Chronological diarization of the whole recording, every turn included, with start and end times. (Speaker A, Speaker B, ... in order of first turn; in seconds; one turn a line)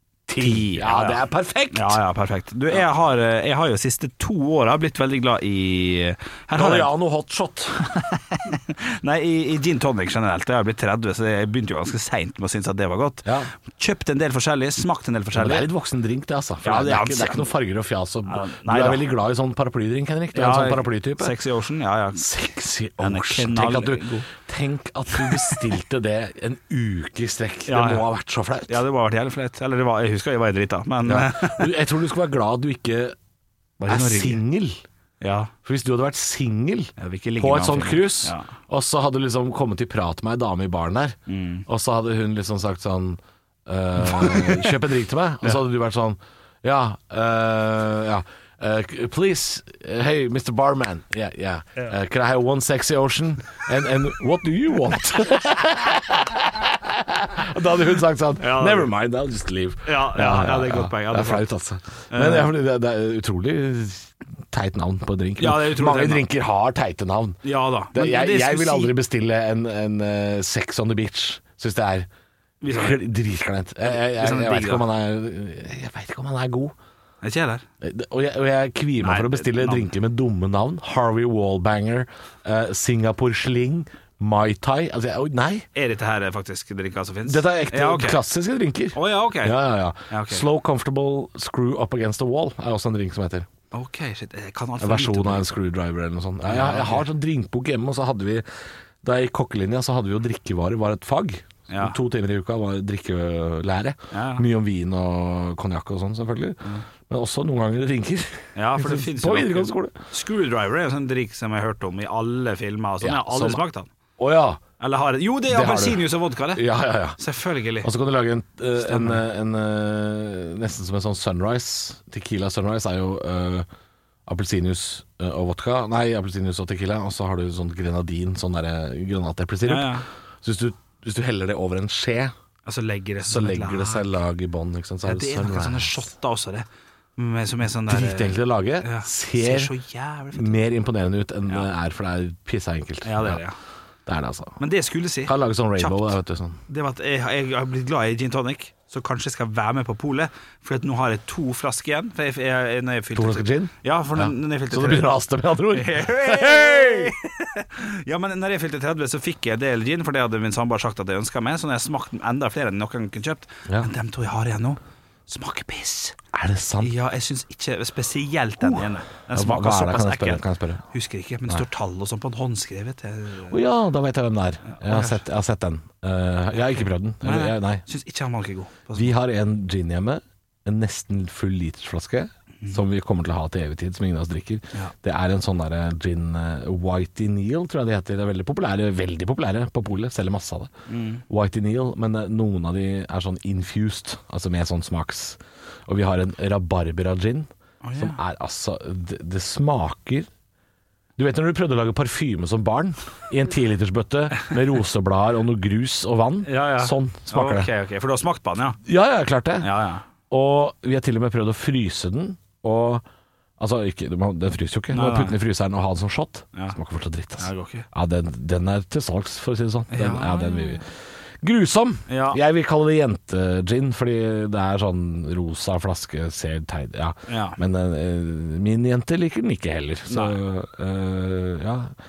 Speaker A: 0.3-2.0
Speaker B: 0.4-6.9
Speaker A: 6.5-7.8
Speaker B: 7.9-15.7
Speaker A: 13.2-13.5
Speaker A: 15.3-21.4
Speaker B: 16.6-17.5
Speaker B: 18.3-19.1
Speaker B: 20.3-24.3
Speaker A: 22.2-28.8
Speaker B: 25.2-25.6
Speaker B: 27.7-28.1
Speaker B: 28.7-31.7
Speaker A: 31.1-33.2
Speaker B: 33.8-34.4
Speaker A: 33.9-34.8
Speaker B: 35.2-35.5
Speaker A: 35.6-67.4
Speaker B: 37.0-38.5
Speaker B: 41.3-41.6
Speaker B: 44.0-44.8
Speaker B: 58.4-58.9
Speaker B: 59.9-61.5
Speaker B: 62.1-62.5
Speaker B: 65.4-66.2
Speaker B: 67.4-68.9
Speaker A: 67.9-72.1
Speaker B: 72.6-73.0
Speaker A: 72.7-76.8
Speaker B: 73.9-74.8
Speaker B: 77.2-77.7
Speaker A: 77.8-85.7
Speaker B: 79.0-79.9
Speaker B: 85.8-88.2
Speaker A: 87.3-93.5
Speaker B: 88.9-90.5
Speaker B: 93.7-95.5
Speaker A: 94.8-98.4
Speaker B: 96.4-97.1
Speaker A: 99.0-110.0
Speaker B: 101.7-102.0
Speaker B: 104.1-104.4
Speaker B: 108.6-113.9
Speaker A: 113.0-113.6
Speaker A: 114.2-114.6
Speaker B: 114.8-116.6
Speaker A: 115.5-117.2
Speaker B: 117.2-117.9
Speaker A: 117.8-123.7
Speaker B: 118.8-119.2
Speaker A: 124.3-132.3
Speaker B: 129.7-130.1
Speaker B: 132.7-134.1
Speaker A: 133.3-136.1
Speaker B: 135.1-136.7
Speaker B: 137.2-140.6
Speaker A: 137.9-139.7
Speaker A: 140.3-143.4
Speaker B: 143.0-143.6
Speaker A: 144.1-144.6
Speaker B: 144.6-146.2
Speaker A: 145.2-146.6
Speaker B: 146.7-155.1
Speaker A: 153.2-157.1
Speaker B: 155.7-166.2
Speaker A: 166.3-166.9
Speaker B: 166.8-173.6
Speaker A: 168.6-170.8
Speaker A: 173.5-177.8
Speaker B: 174.7-175.2
Speaker B: 176.7-179.1
Speaker A: 178.9-190.7
Speaker B: 190.9-191.2
Speaker A: 191.3-200.3
Speaker B: 197.8-198.2
Speaker A: 201.2-207.7
Speaker B: 206.4-208.8
Speaker A: 208.8-209.7
Speaker B: 209.6-210.1
Speaker A: 210.3-213.1
Speaker A: 213.6-220.9
Speaker B: 214.9-215.4
Speaker B: 217.4-217.9
Speaker B: 219.9-220.8
Speaker A: 221.4-231.9
Speaker B: 222.1-222.4
Speaker B: 227.3-227.6
Speaker B: 230.1-230.4